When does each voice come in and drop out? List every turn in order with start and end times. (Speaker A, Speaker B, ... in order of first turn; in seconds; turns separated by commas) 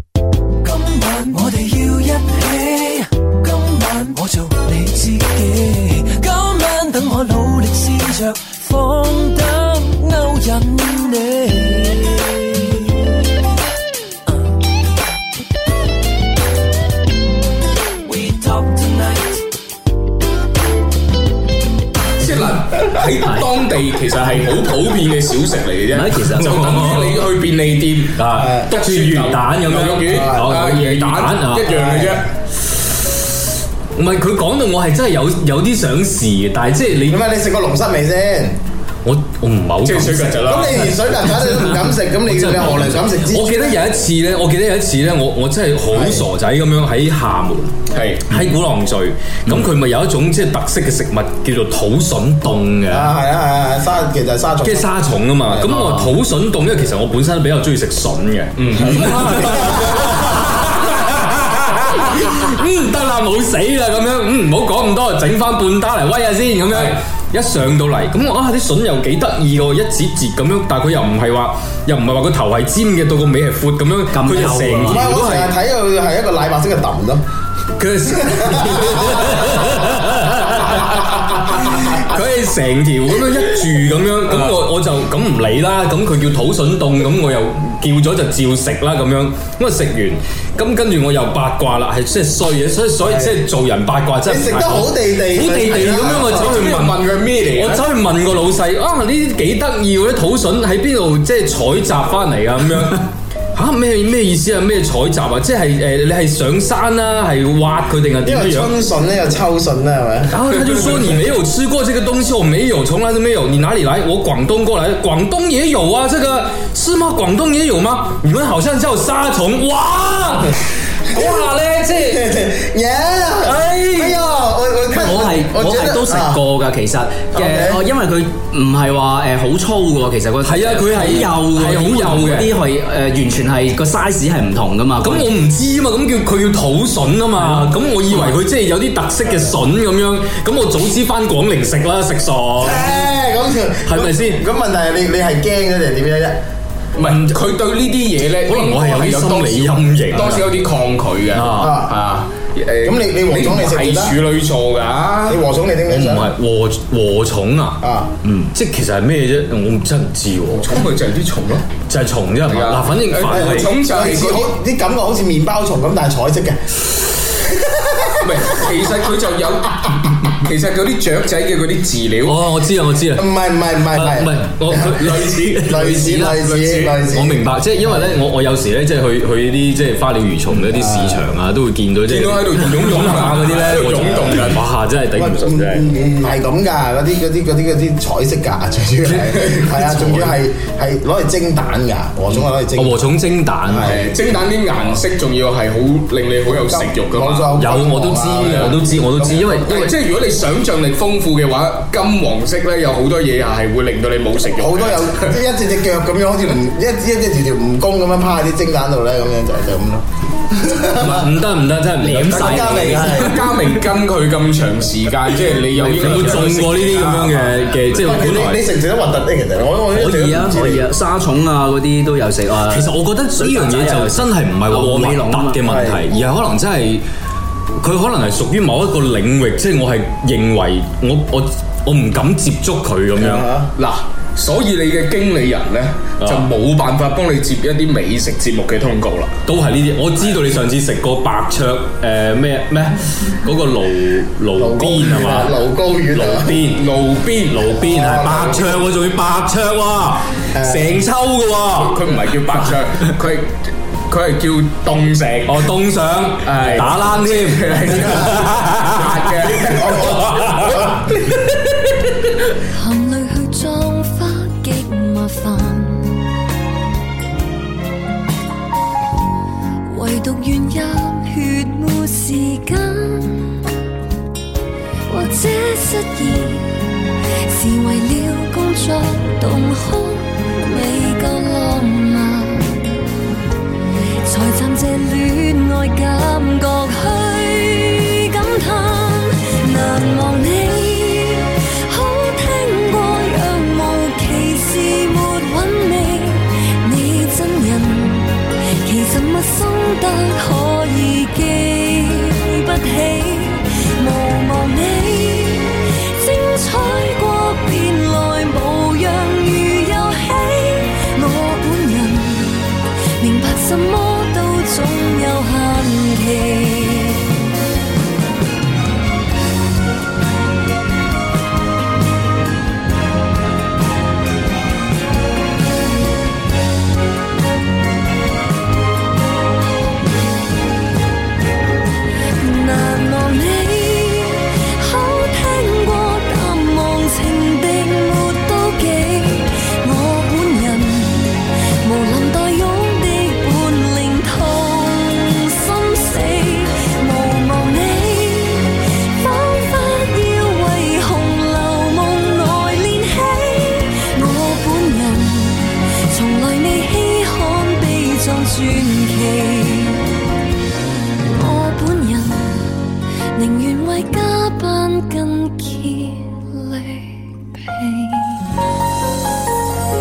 Speaker A: 0.7-12.8, Speaker A: 18.1-19.4, Speaker B: 22.2-32.3, Speaker C: 25.9-26.6, Speaker D: 26.3-27.3, Speaker D: 28.2-31.8, Speaker E: 28.4-28.7, Speaker E: 30.1-30.5, Speaker E: 31.7-32.2, Speaker D: 34.0-37.2, Speaker E: 37.1-38.6, Speaker D: 39.0-47.7, Speaker B: 39.8-40.9, Speaker E: 40.5-43.8, Speaker E: 45.9-46.3, Speaker B: 47.9-48.4, Speaker D: 48.3-53.1, Speaker E: 52.9-54.9, Speaker D: 54.6-75.5, Speaker E: 55.5-55.7, Speaker C: 55.8-56.0, Speaker B: 58.6-59.4, Speaker E: 59.7-60.0, Speaker B: 66.7-67.0, Speaker C: 74.1-75.0, Speaker E: 74.9-77.2, Speaker D: 77.8-108.8, Speaker E: 78.3-79.2, Speaker E: 93.0-93.4, Speaker E: 94.2-96.5, Speaker B: 95.9-97.8, Speaker E: 108.2-110.4, Speaker D: 110.3-122.3, Speaker E: 121.2-121.5, Speaker E: 122.1-126.4, Speaker D: 123.4-124.2, Speaker C: 124.9-135.3, Speaker E: 127.3-127.8, Speaker D: 130.4-132.6, Speaker D: 135.0-143.0, Speaker C: 137.4-138.4, Speaker E: 142.6-146.4, Speaker D: 143.8-144.4, Speaker B: 147.0-155.4, Speaker D: 148.4-150.5, Speaker D: 151.3-151.8, Speaker E: 151.6-152.0, Speaker E: 152.8-154.2, Speaker E: 155.3-156.3, Speaker D: 155.9-160.8, Speaker E: 157.8-158.1, Speaker B: 160.5-161.7, Speaker D: 161.9-163.8, Speaker B: 162.5-164.5, Speaker E: 163.3-168.7, Speaker B: 168.2-172.5, Speaker D: 172.2-173.3, Speaker E: 173.2-175.0, Speaker D: 173.9-175.9, Speaker B: 174.8-177.0, Speaker E: 175.6-178.1, Speaker D: 177.1-185.9, Speaker E: 180.7-181.3, Speaker B: 182.1-184.7, Speaker E: 185.2-193.0, Speaker B: 189.1-190.4, Speaker D: 192.7-194.0, Speaker E: 193.7-194.1, Speaker B: 193.8-197.5, Speaker E: 196.5-199.9, Speaker D: 197.6-200.0, Speaker B: 198.4-198.7, Speaker B: 199.5-205.3, Speaker E: 204.6-211.3, Speaker D: 211.0-212.7, Speaker C: 212.0-213.2, Speaker B: 212.1-217.9, Speaker E: 212.4-213.5, Speaker C: 215.7-216.1, Speaker D: 216.0-218.6, Speaker E: 218.0-220.9, Speaker C: 219.9-225.6, Speaker D: 222.7-227.0, Speaker E: 225.7-226.1, Speaker D: 227.8-233.5, Speaker E: 233.2-233.7, Speaker B: 233.8-239.4, Speaker D: 236.2-236.5, Speaker D: 239.4-245.6, Speaker E: 244.6-246.6, Speaker D: 246.1-246.8, Speaker B: 246.6-248.6, Speaker D: 247.4-252.1, Speaker E: 247.9-248.5, Speaker E: 250.5-251.0, Speaker B: 251.8-255.7, Speaker D: 255.4-259.5, Speaker B: 256.4-260.6, Speaker E: 259.6-261.2, Speaker D: 260.2-260.9, Speaker F: 262.6-266.3, Speaker F: 269.8-273.7, Speaker F: 275.1-282.9, Speaker F: 284.2-317.3, Speaker F: 332.4-360.2, Speaker F: 361.2-368.5